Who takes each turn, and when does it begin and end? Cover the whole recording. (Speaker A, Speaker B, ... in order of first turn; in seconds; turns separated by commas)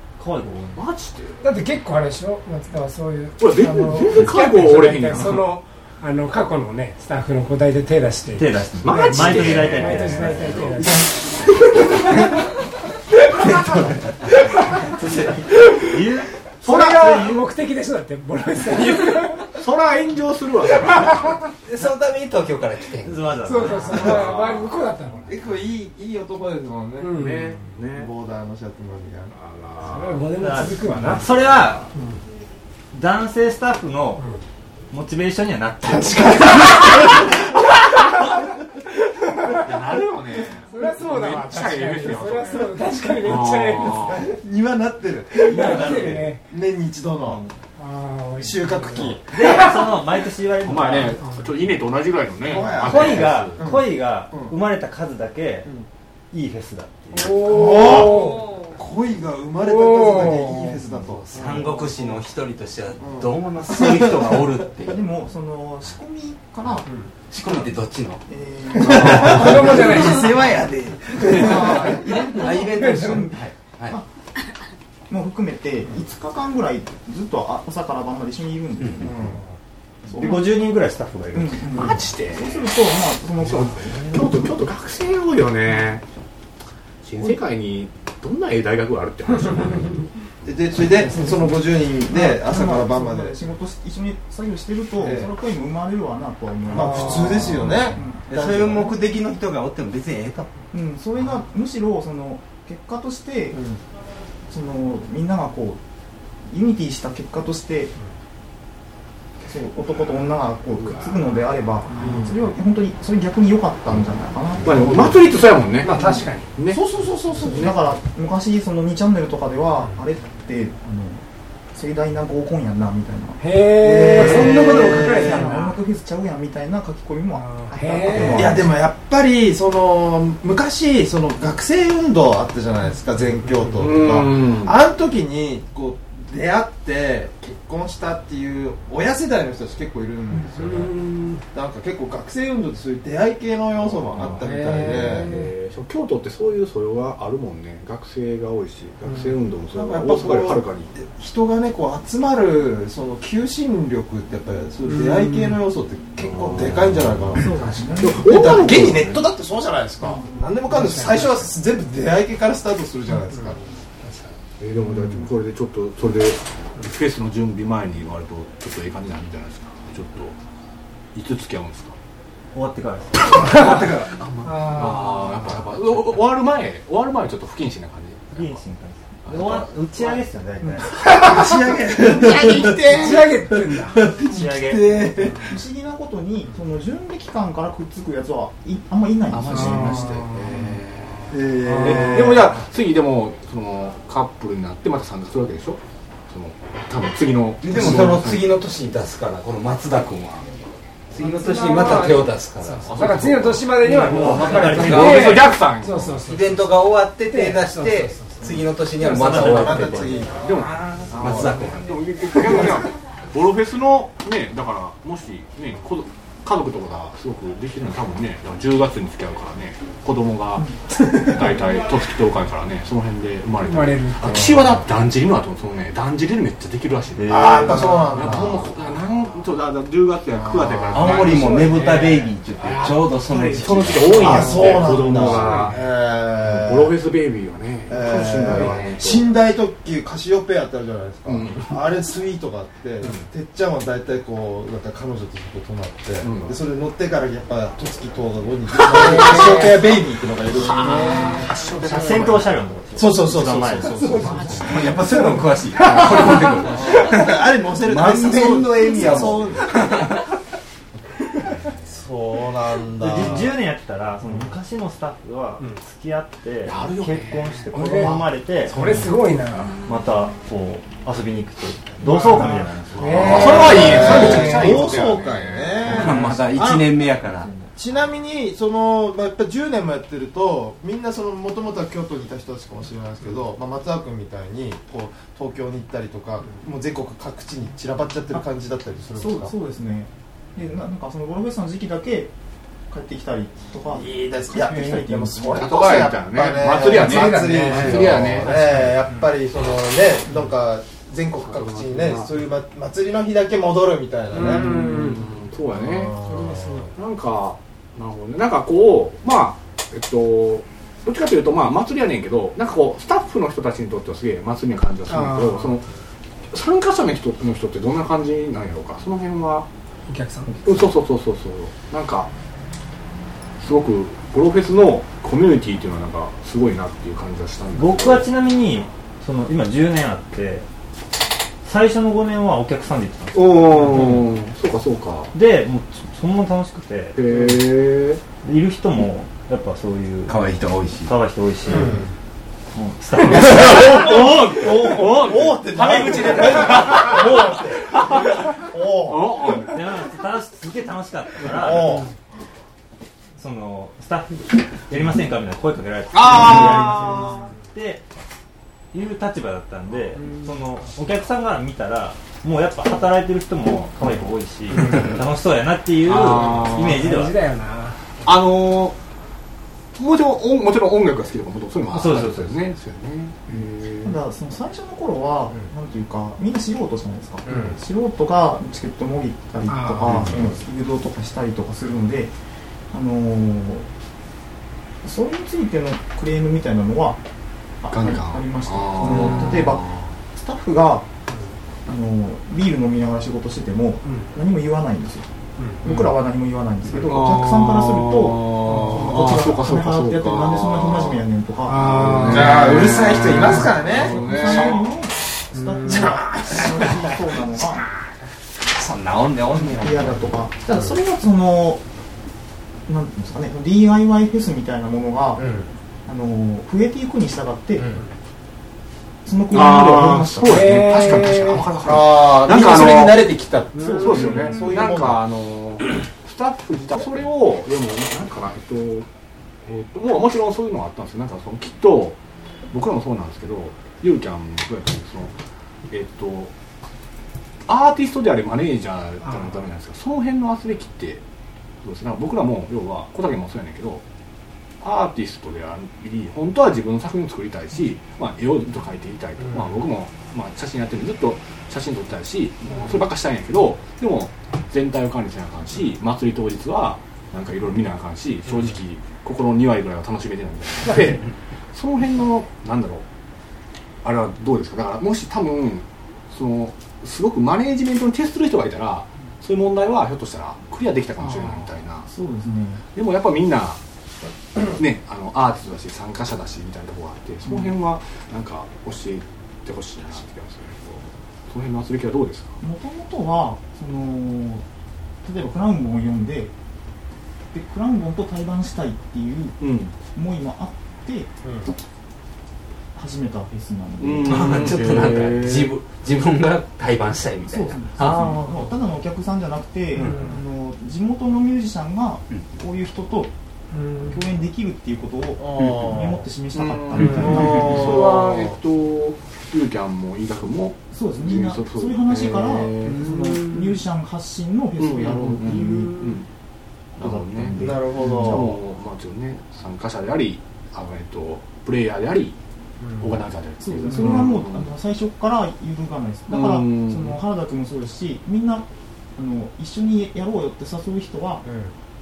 Speaker A: 0.2-0.8, Speaker B: 0.7-1.4, Speaker C: 1.4-11.1, Speaker B: 3.4-5.5, Speaker A: 8.3-10.9, Speaker B: 8.8-10.7, Speaker D: 13.5-14.1, Speaker A: 14.9-17.4, Speaker D: 15.0-15.3, Speaker C: 16.6-19.5, Speaker B: 16.6-17.1, Speaker B: 19.5-21.4, Speaker D: 21.6-24.1, Speaker A: 23.0-24.2, Speaker C: 23.4-25.4, Speaker B: 23.9-24.7, Speaker E: 24.0-24.4, Speaker E: 25.3-27.1, Speaker C: 27.0-27.6, Speaker B: 27.1-28.1, Speaker E: 27.9-29.3, Speaker B: 29.3-30.3, Speaker C: 29.8-31.3, Speaker A: 30.4-31.9, Speaker A: 32.9-34.3, Speaker C: 34.2-34.4, Speaker A: 34.9-36.9, Speaker E: 35.8-37.3, Speaker B: 39.5-44.2, Speaker C: 40.7-44.3, Speaker E: 44.1-47.4, Speaker C: 45.4-46.4, Speaker A: 45.5-46.3, Speaker A: 47.2-47.5, Speaker C: 47.8-49.8, Speaker E: 48.4-49.4, Speaker A: 49.2-51.2, Speaker B: 50.6-53.6, Speaker C: 51.2-51.5, Speaker E: 52.4-54.6, Speaker A: 52.6-55.7, Speaker A: 56.3-57.5, Speaker C: 57.1-58.6, Speaker E: 57.3-61.9, Speaker C: 59.6-60.8, Speaker D: 61.0-65.0, Speaker E: 63.0-64.2, Speaker F: 64.9-66.9, Speaker D: 67.3-74.0, Speaker F: 68.3-70.0, Speaker E: 68.8-70.0, Speaker C: 68.9-70.5, Speaker F: 71.2-74.1, Speaker E: 71.3-71.8, Speaker C: 71.5-72.0, Speaker C: 72.5-73.3, Speaker F: 75.1-79.2, Speaker D: 78.8-79.1, Speaker E: 79.0-79.4, Speaker F: 80.1-80.4, Speaker A: 80.1-81.9, Speaker F: 81.3-84.2, Speaker B: 81.7-82.7, Speaker B: 83.4-86.0, Speaker B: 87.0-90.0, Speaker E: 90.4-93.3, Speaker F: 92.1-98.3, Speaker E: 95.0-95.3, Speaker E: 96.7-98.9, Speaker D: 98.3-100.5, Speaker F: 100.7-103.6, Speaker E: 103.5-103.8, Speaker F: 104.5-105.8, Speaker F: 106.5-107.9, Speaker F: 109.4-115.3, Speaker B: 110.8-111.1, Speaker E: 112.0-112.3, Speaker B: 114.6-116.8, Speaker C: 115.8-116.5, Speaker F: 116.0-116.2, Speaker E: 116.7-117.7, Speaker F: 117.3-128.7, Speaker B: 117.4-117.7, Speaker C: 123.4-125.8, Speaker E: 124.2-125.4, Speaker C: 127.4-128.6, Speaker E: 128.2-140.9, Speaker B: 133.8-134.8, Speaker C: 140.4-141.4, Speaker E: 141.5-145.3, Speaker B: 143.8-150.9, Speaker C: 144.4-145.4, Speaker E: 149.7-163.6, Speaker C: 154.8-155.6, Speaker B: 156.2-157.0, Speaker F: 157.3-158.3, Speaker B: 158.0-159.2, Speaker F: 160.0-160.3, Speaker C: 160.7-161.5, Speaker C: 163.3-164.3, Speaker B: 164.6-170.4, Speaker B: 171.1-171.9, Speaker A: 172.5-173.4, Speaker E: 173.6-174.1, Speaker D: 173.9-176.0, Speaker C: 174.4-175.1, Speaker B: 174.4-178.6, Speaker A: 178.3-181.1, Speaker B: 179.2-179.7, Speaker E: 180.9-185.5, Speaker C: 182.0-184.1, Speaker A: 184.2-185.2, Speaker F: 185.4-190.1, Speaker D: 189.3-191.2, Speaker B: 190.2-198.5, Speaker E: 191.3-192.6, Speaker D: 197.6-200.6, Speaker D: 201.1-203.1, Speaker C: 201.2-206.7, Speaker B: 202.8-206.2, Speaker A: 203.8-205.4, Speaker D: 204.1-205.3, Speaker D: 206.2-210.3, Speaker C: 207.3-208.6, Speaker E: 209.0-210.5, Speaker A: 209.1-210.1, Speaker B: 210.3-235.8, Speaker E: 211.1-211.6, Speaker D: 211.1-212.8, Speaker C: 223.6-224.6, Speaker A: 227.2-228.1, Speaker E: 227.2-228.7, Speaker E: 230.3-231.4, Speaker D: 230.9-235.6, Speaker C: 231.4-232.3, Speaker E: 234.2-236.9, Speaker B: 236.4-239.3, Speaker E: 237.9-251.5, Speaker D: 238.5-238.9, Speaker B: 241.2-241.8, Speaker B: 246.2-246.6, Speaker C: 248.8-249.9, Speaker C: 250.6-252.3, Speaker B: 250.9-252.4, Speaker A: 251.8-254.5, Speaker E: 252.9-255.0, Speaker C: 253.9-255.0, Speaker D: 254.4-260.2, Speaker B: 256.3-256.9, Speaker E: 256.6-259.9, Speaker E: 261.9-263.6, Speaker A: 262.9-269.1, Speaker B: 266.6-268.2, Speaker C: 267.7-269.8, Speaker A: 269.8-274.1, Speaker C: 272.0-274.9, Speaker E: 273.0-276.9, Speaker B: 273.1-276.4, Speaker D: 275.8-277.5, Speaker E: 277.7-289.5, Speaker F: 289.1-292.3, Speaker F: 292.9-295.7, Speaker E: 293.9-304.9, Speaker B: 295.5-298.8, Speaker C: 296.8-299.1, Speaker B: 301.4-302.4, Speaker C: 304.3-305.2, Speaker B: 304.3-306.2, Speaker E: 305.7-306.9, Speaker C: 306.2-306.9, Speaker B: 306.9-315.9, Speaker C: 315.1-315.8, Speaker B: 316.5-319.7, Speaker C: 320.1-320.6, Speaker B: 320.6-322.3, Speaker B: 323.6-328.3, Speaker A: 327.7-330.6, Speaker A: 331.6-334.2, Speaker B: 333.3-335.3, Speaker A: 335.3-337.6, Speaker B: 337.1-338.2, Speaker A: 338.4-340.4, Speaker D: 340.2-341.1, Speaker A: 341.0-342.0, Speaker E: 341.6-342.1, Speaker A: 342.7-347.2, Speaker B: 343.2-349.9, Speaker E: 344.7-349.3, Speaker A: 349.6-352.1, Speaker E: 351.4-352.1, Speaker A: 353.4-358.1, Speaker B: 356.1-357.5, Speaker A: 358.9-367.4, Speaker C: 360.2-360.4, Speaker B: 366.0-367.1, Speaker C: 366.6-368.0, Speaker B: 368.2-369.0, Speaker B: 369.9-374.2, Speaker A: 371.9-372.6, Speaker F: 374.0-382.3, Speaker C: 379.7-380.2, Speaker B: 380.1-380.5, Speaker F: 382.9-383.9, Speaker F: 385.0-387.2, Speaker F: 387.8-391.1, Speaker B: 387.9-390.1, Speaker C: 391.3-391.5, Speaker F: 391.9-395.3, Speaker C: 394.1-394.3, Speaker F: 395.8-402.4, Speaker B: 395.8-396.1, Speaker B: 396.9-404.9, Speaker C: 401.9-402.7, Speaker E: 402.3-404.6, Speaker F: 403.7-407.9, Speaker C: 405.5-406.1, Speaker D: 405.9-406.9, Speaker D: 408.6-410.4, Speaker F: 409.6-411.8, Speaker F: 412.9-415.4, Speaker E: 415.4-415.7, Speaker F: 416.1-417.9, Speaker F: 419.2-420.8, Speaker B: 419.5-423.4, Speaker C: 420.4-421.7, Speaker E: 421.8-425.2, Speaker C: 423.8-424.0, Speaker F: 423.8-424.6, Speaker B: 424.0-429.1, Speaker B: 429.6-432.2, Speaker B: 432.7-435.3, Speaker B: 435.9-436.5, Speaker B: 437.7-441.2, Speaker B: 441.8-444.0, Speaker B: 444.8-463.1, Speaker B: 464.0-472.1, Speaker F: 472.1-472.8, Speaker B: 472.9-473.8, Speaker B: 474.7-482.6, Speaker F: 482.6-484.6, Speaker F: 485.2-486.5, Speaker F: 487.5-491.7, Speaker B: 489.6-489.9, Speaker F: 492.9-494.7, Speaker B: 494.0-495.7, Speaker D: 494.2-498.6, Speaker F: 497.4-503.3, Speaker D: 500.0-500.3, Speaker C: 500.0-500.3, Speaker C: 503.7-504.2, Speaker F: 504.0-508.1, Speaker E: 505.4-506.2, Speaker B: 506.5-513.5, Speaker E: 507.2-508.5, Speaker F: 510.9-516.2, Speaker B: 514.8-516.2, Speaker B: 517.0-522.4, Speaker F: 517.0-518.5, Speaker E: 517.6-518.6, Speaker E: 522.8-523.1, Speaker B: 523.0-524.7, Speaker F: 523.6-531.5, Speaker B: 526.3-527.2, Speaker E: 531.4-531.7